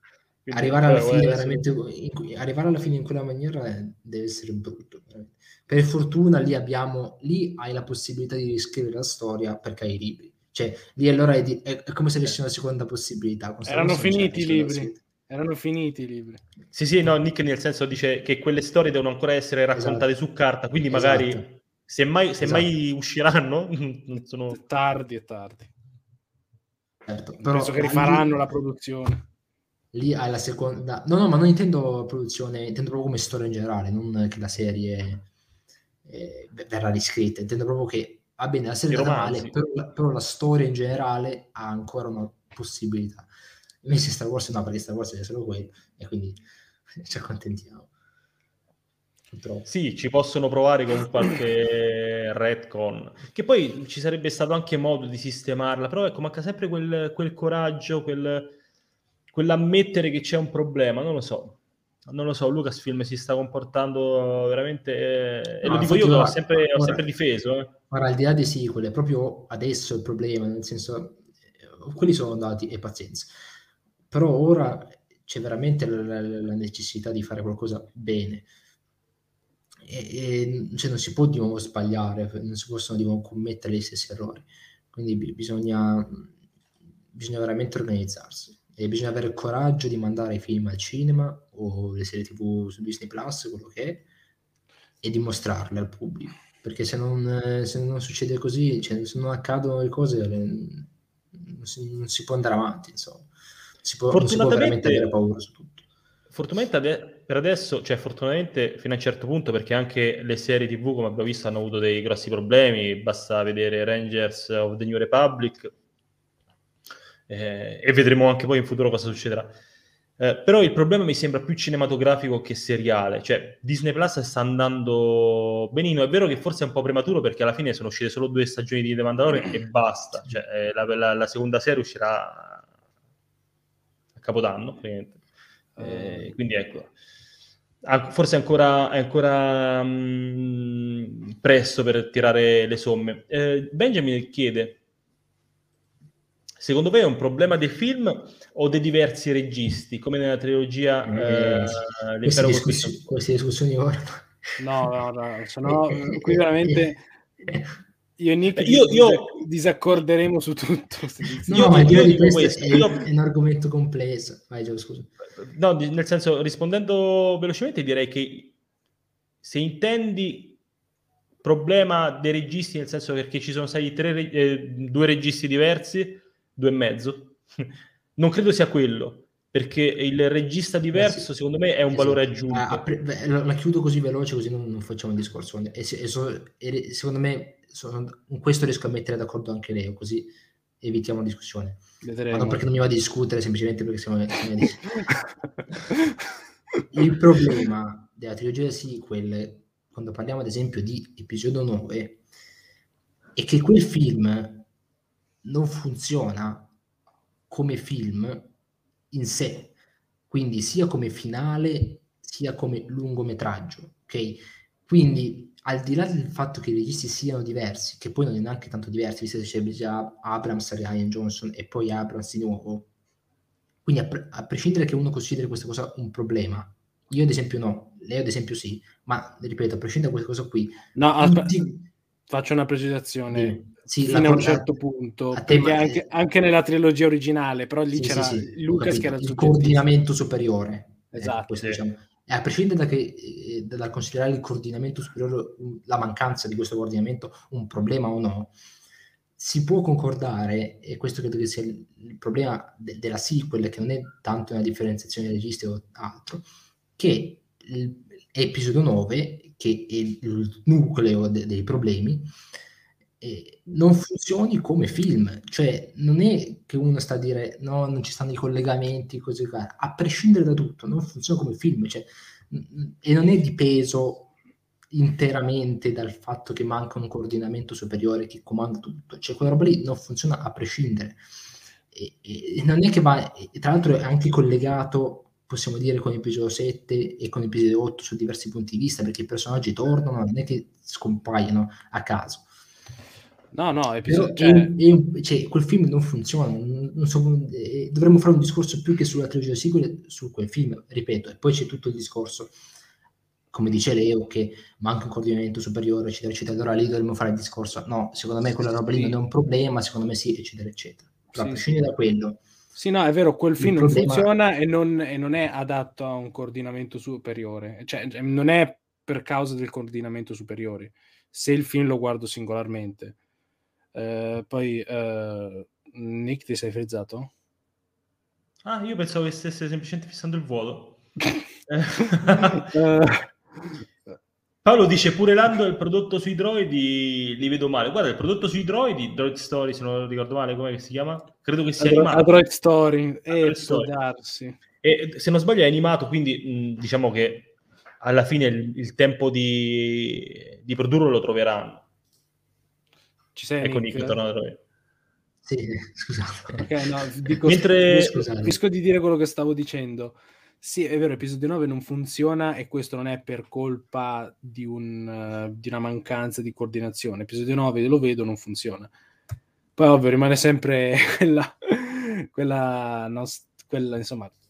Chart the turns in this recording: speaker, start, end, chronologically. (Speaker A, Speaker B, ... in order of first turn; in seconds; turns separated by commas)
Speaker A: 0.5-1.6, Speaker B: 0.5-15.0, Speaker C: 13.7-16.4, Speaker A: 16.7-24.6, Speaker B: 19.7-20.1, Speaker B: 20.9-21.4, Speaker B: 22.4-22.7, Speaker C: 24.5-25.7, Speaker B: 27.1-28.4, Speaker C: 27.5-29.3, Speaker B: 29.9-35.3, Speaker B: 36.0-43.3, Speaker A: 38.9-39.5, Speaker B: 43.8-46.4, Speaker B: 47.0-47.9, Speaker B: 49.3-49.7, Speaker A: 49.7-58.6, Speaker A: 59.3-67.8, Speaker B: 65.6-67.1, Speaker B: 67.9-73.3, Speaker B: 74.1-78.5, Speaker B: 79.8-86.3, Speaker B: 87.1-94.1, Speaker B: 95.0-103.3, Speaker B: 103.8-105.8, Speaker A: 104.1-105.2, Speaker A: 106.3-115.7, Speaker A: 117.3-119.5, Speaker A: 120.2-132.6, Speaker A: 134.2-135.2, Speaker A: 135.8-136.9, Speaker C: 135.8-136.3, Speaker A: 137.8-144.8, Speaker A: 146.6-153.0, Speaker B: 151.1-154.3, Speaker C: 154.6-157.0, Speaker B: 155.7-156.8, Speaker B: 157.4-157.7, Speaker C: 158.2-161.8, Speaker A: 158.6-159.4, Speaker B: 161.4-165.1, Speaker A: 161.5-163.1, Speaker A: 165.4-168.6, Speaker A: 169.4-170.6, Speaker A: 171.4-182.8, Speaker B: 180.9-181.3, Speaker B: 181.9-195.0, Speaker C: 192.0-192.7, Speaker B: 196.9-202.2, Speaker B: 203.3-204.7, Speaker B: 205.4-206.7, Speaker B: 207.5-208.5, Speaker B: 209.1-209.7, Speaker B: 210.3-222.9, Speaker B: 223.8-231.9, Speaker C: 230.9-231.6, Speaker C: 232.3-239.9, Speaker B: 233.3-234.7, Speaker B: 235.3-236.1, Speaker B: 237.9-248.5, Speaker C: 241.1-241.5, Speaker B: 249.4-262.3, Speaker B: 263.2-274.3, Speaker B: 274.9-281.2, Speaker B: 281.9-292.5, Speaker C: 293.5-294.8, Speaker B: 294.1-302.6, Speaker B: 303.5-312.4, Speaker C: 308.9-309.2, Speaker C: 311.4-311.7, Speaker C: 312.8-323.2, Speaker B: 313.6-314.3, Speaker C: 323.9-327.3, Speaker A: 328.6-331.0, Speaker A: 331.7-332.7, Speaker C: 332.6-333.8, Speaker A: 334.6-342.3, Speaker C: 341.8-344.6, Speaker A: 343.3-343.9, Speaker A: 344.8-351.8, Speaker C: 353.4-354.2, Speaker A: 353.6-354.6, Speaker B: 355.4-356.7, Speaker C: 356.6-368.9, Speaker A: 357.4-358.2, Speaker B: 358.1-358.6, Speaker C: 369.8-374.3